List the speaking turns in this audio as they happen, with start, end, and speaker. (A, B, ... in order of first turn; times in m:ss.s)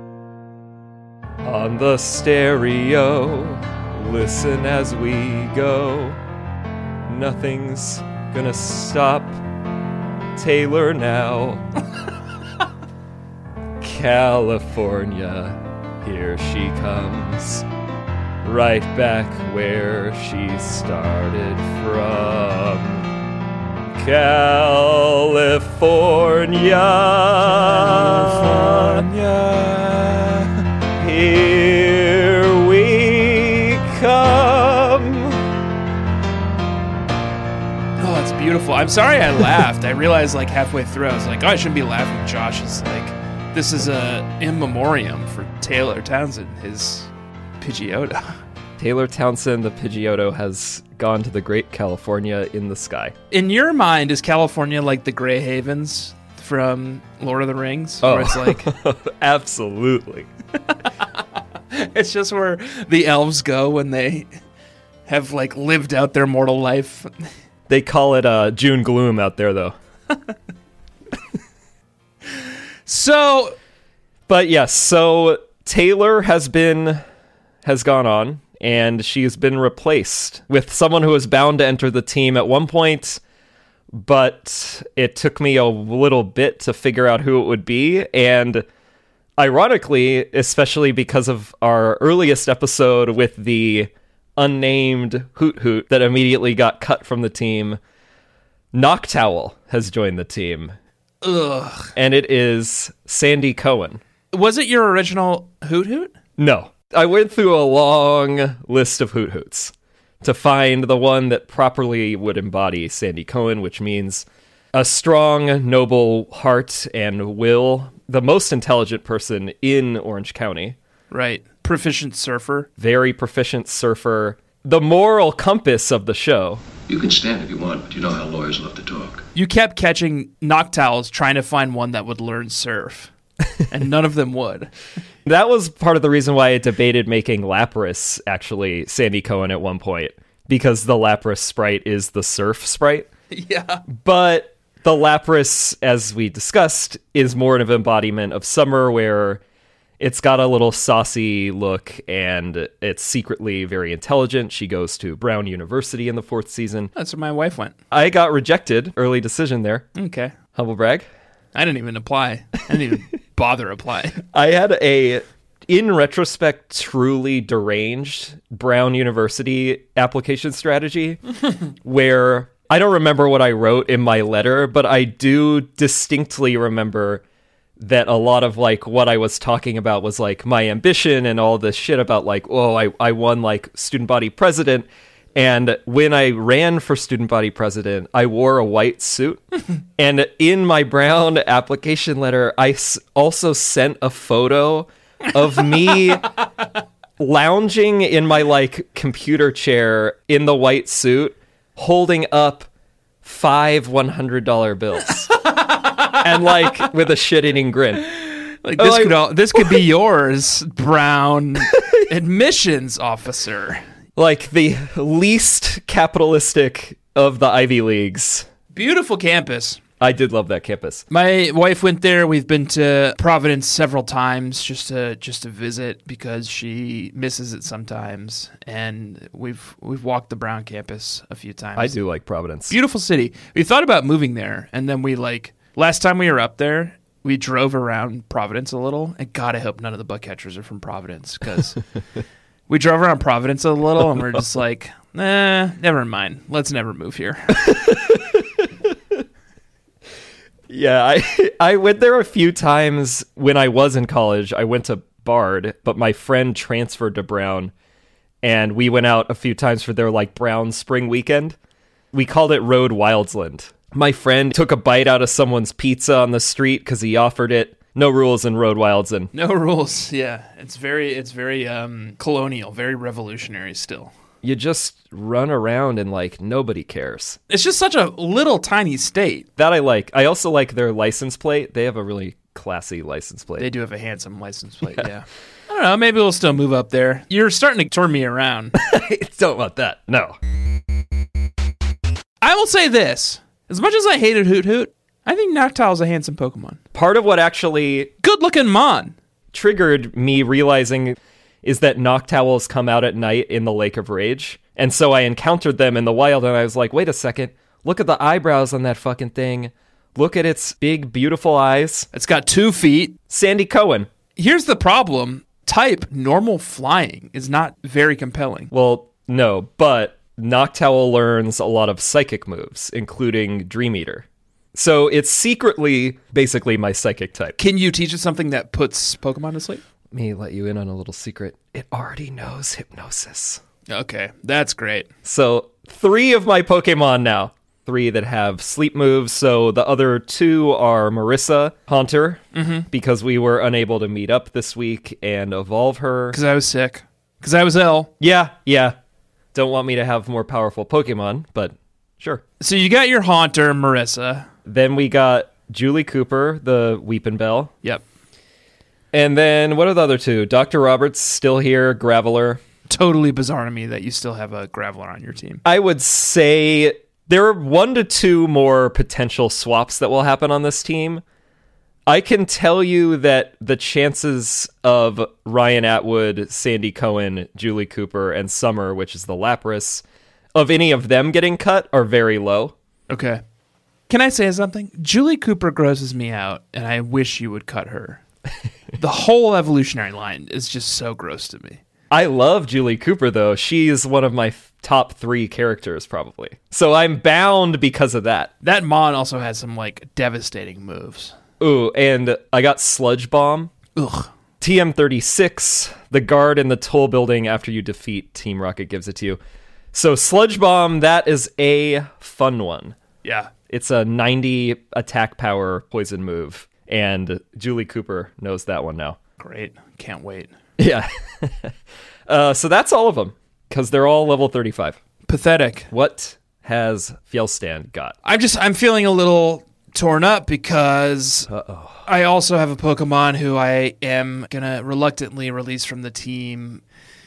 0:01.4-0:06.2 A
0:07.0-0:09.4 A
0:10.4-0:11.6 A
0:13.8-0:17.7 A
0:18.4-0:23.1 A
0:23.9-0:29.1 A
0:27.4-0:30.6 B
0:31.0-0:35.4 A
0:38.0-0:48.4 B
0:48.8-0:53.2 A
0:53.3-0:58.7 B
0:58.0-1:00.3 A
1:01.7-1:04.3 B
1:05.1-1:07.3 B
1:07.7-1:09.8 A
1:12.9-1:13.6 B
1:14.3-1:17.0 A
1:17.6-1:23.2 A
1:23.9-1:28.6 A
1:29.4-1:37.8 A
1:38.7-1:40.8 A
1:41.2-1:41.9 B
1:42.0-1:44.0 A
1:44.3-1:46.1 B
1:46.4-2:00.8 A
2:01.1-2:02.7 B
2:02.8-2:06.7 A
2:06.9-2:09.3 C
2:09.4-2:13.1 B
2:13.7-2:14.7 B
2:15.2-2:23.1 A
2:23.3-2:23.8 B
2:23.9-2:29.4 A
2:30.0-2:36.9 A
2:37.0-2:37.8 B
2:37.9-2:39.9 A
2:40.0-2:40.4 B
2:40.6-2:41.1 A
2:41.5-2:44.2 B
2:44.3-2:51.2 A
2:51.8-2:57.2 A
2:57.8-3:09.4 A
3:10.0-3:16.3 A
3:17.2-3:22.7 A
3:23.2-3:25.3 A
3:25.4-3:26.2 B
3:26.2-3:28.1 A
3:28.2-3:33.8 B
3:28.8-3:29.8 A
3:31.7-3:31.9 A
3:34.2-3:38.5 A
3:38.7-3:39.8 B
3:40.0-3:41.0 A
3:41.1-3:52.0 B
3:51.8-3:52.7 A
3:52.7-4:01.8 B
4:02.7-4:07.6 B
4:07.5-4:09.2 A
4:10.7-4:17.7 A
4:18.4-4:21.6 A
4:22.1-4:29.3 A
4:29.3-4:34.1 B
4:34.4-4:37.4 A
4:37.5-4:39.5 B
4:39.6-4:43.7 A
4:43.6-4:48.8 B
4:48.8-4:50.4 A
4:52.4-4:56.8 B
4:56.9-4:58.1 A
4:58.2-4:59.2 B
4:59.5-5:12.1 A
5:12.1-5:13.2 B
5:13.3-5:14.1 A
5:14.4-5:18.7 B
5:18.7-5:27.6 A
5:27.6-5:29.8 B
5:30.1-5:33.6 A
5:33.9-5:35.1 B
5:35.2-5:46.4 A
5:42.5-5:42.9 B
5:46.3-5:48.1 B
5:48.2-5:49.0 A
5:49.5-5:52.4 A
5:52.6-5:54.5 B
5:54.7-5:57.7 A
5:59.1-6:02.6 A
6:02.9-6:05.6 B
6:05.6-6:11.2 A
6:12.1-6:20.0 A
6:20.6-6:22.7 A
6:23.1-6:23.4 B
6:24.1-6:28.2 B
6:29.0-6:31.8 B
6:32.1-6:38.5 A
6:38.6-6:41.4 B
6:41.6-6:43.7 A
6:44.0-6:44.3 B
6:44.6-6:49.4 A
6:49.9-6:53.0 A
6:53.2-6:53.5 B
6:53.7-6:59.2 A
6:59.4-7:00.5 B
7:00.8-7:01.8 A
7:02.3-7:05.0 A
7:05.3-7:05.9 B
7:05.9-7:08.2 A
7:08.2-7:11.5 B
7:11.5-7:12.0 A
7:12.1-7:16.8 B